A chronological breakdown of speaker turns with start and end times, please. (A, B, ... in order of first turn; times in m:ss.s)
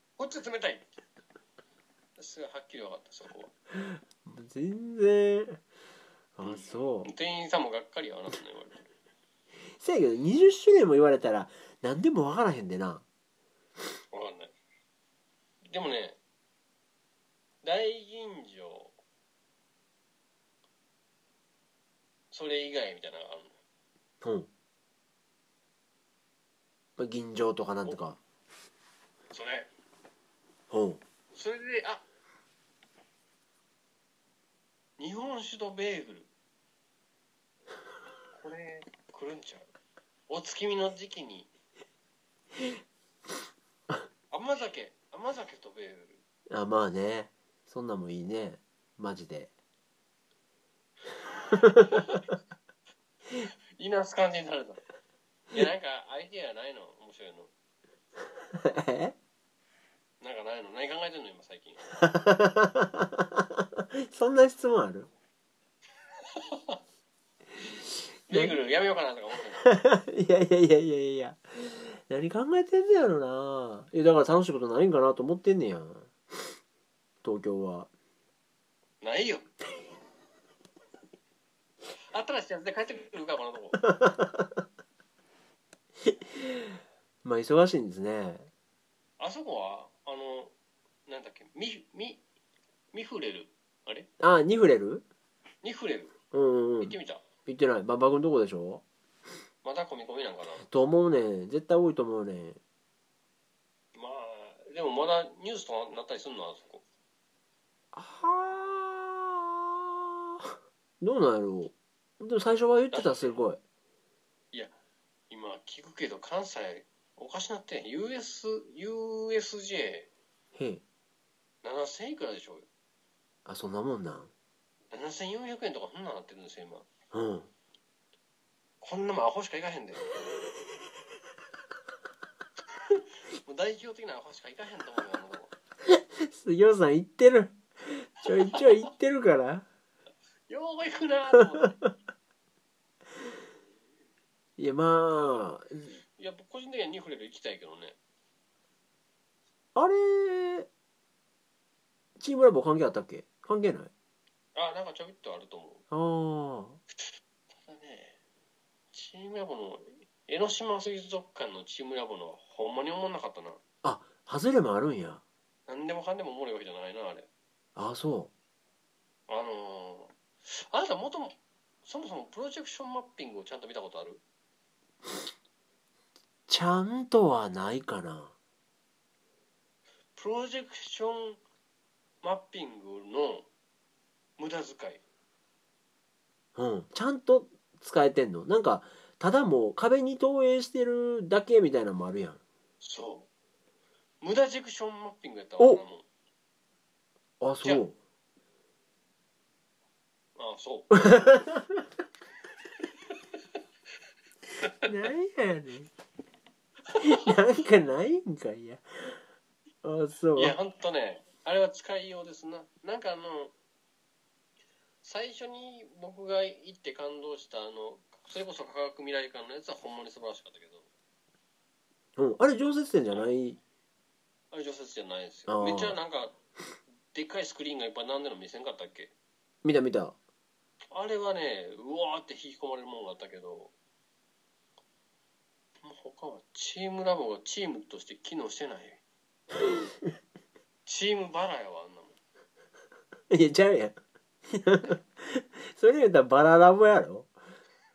0:00.2-0:00.8 A
0:02.2-0:03.5 A
0:03.8-0:05.6 B
0:06.4-0:07.1 B
0:06.4-0:08.8 A
0:09.8-0:13.0 B
0:14.1-0:14.5 A
0:15.6-0:16.2 A
0:17.6-0:18.9 A
0:22.3-0:23.5 A
0:24.2-0:24.5 B
0:27.0-0:28.2 B
0:29.3-0:29.7 A
0:30.7-0:31.0 B
0:31.3-0:32.0 A
0:35.0-0:36.3 A
0:38.3-0:39.7 A
0:40.3-0:41.5 A
0:44.3-0:46.2 A
0:46.5-0:49.5 B
0:51.5-0:52.2 B
0:53.8-0:54.8 A
0:55.5-0:57.5 A
0:58.6-0:59.1 B
1:00.2-1:01.8 A
1:02.0-1:05.1 B
1:06.4-1:06.8 A
1:08.3-1:09.7 A
1:08.3-1:08.5 B
1:09.6-1:16.1 B
1:17.2-1:17.9 B
1:19.0-1:19.5 A
1:22.1-1:23.8 A
1:23.9-1:24.5 B
1:26.2-1:26.7 B
1:27.2-1:28.5 B
1:29.2-1:30.5 A
1:31.1-1:32.2 A
1:32.9-1:34.1 A
1:34.2-1:35.0 B
1:35.6-1:36.2 A
1:36.3-1:38.8 B
1:36.8-1:37.2 A
1:39.6-1:40.6 A
1:40.7-1:42.6 B
1:43.9-1:46.8 A
1:47.9-1:53.6 B
1:52.9-1:53.4 A
1:55.3-2:00.1 A
2:00.5-2:00.8 B
2:01.6-2:02.7 A
2:03.4-2:04.3 B
2:04.9-2:06.9 A
2:07.1-2:07.5 B
2:08.8-2:10.3 A
2:13.4-2:15.5 A
2:15.9-2:19.6 B
2:20.5-2:21.8 A
2:24.6-2:25.9 B
2:26.2-2:28.0 A
2:29.8-2:30.7 B
2:32.2-2:33.9 B
2:34.5-2:35.8 A
2:35.9-2:36.8 B
2:37.6-2:38.2 A
2:38.9-2:43.6 A
2:43.8-2:45.2 B
2:45.7-2:47.3 A
2:47.8-2:48.3 B
2:49.3-2:51.3 A
2:51.8-2:54.2 A
2:56.5-2:58.4 B
3:00.2-3:01.4 A
3:02.2-3:03.5 A
3:04.4-3:05.0 A
3:06.6-3:12.4 B
3:12.8-3:13.3 A
3:14.2-3:16.1 A
3:17.4-3:18.0 B
3:20.4-3:21.0 A
3:20.9-3:21.6 B
3:24.6-3:24.9 A
3:24.8-3:25.9 B
3:27.0-3:29.2 B
3:29.8-3:30.6 B
3:30.4-3:33.5 A
3:35.0-3:40.9 A
3:42.2-3:43.6 B
3:44.5-3:46.4 A
3:45.5-3:46.0 B
3:47.1-3:49.1 A
3:49.6-3:50.2 B
3:50.9-3:53.7 A
3:55.8-3:59.0 A
4:00.9-4:02.2 A
4:03.3-4:07.3 B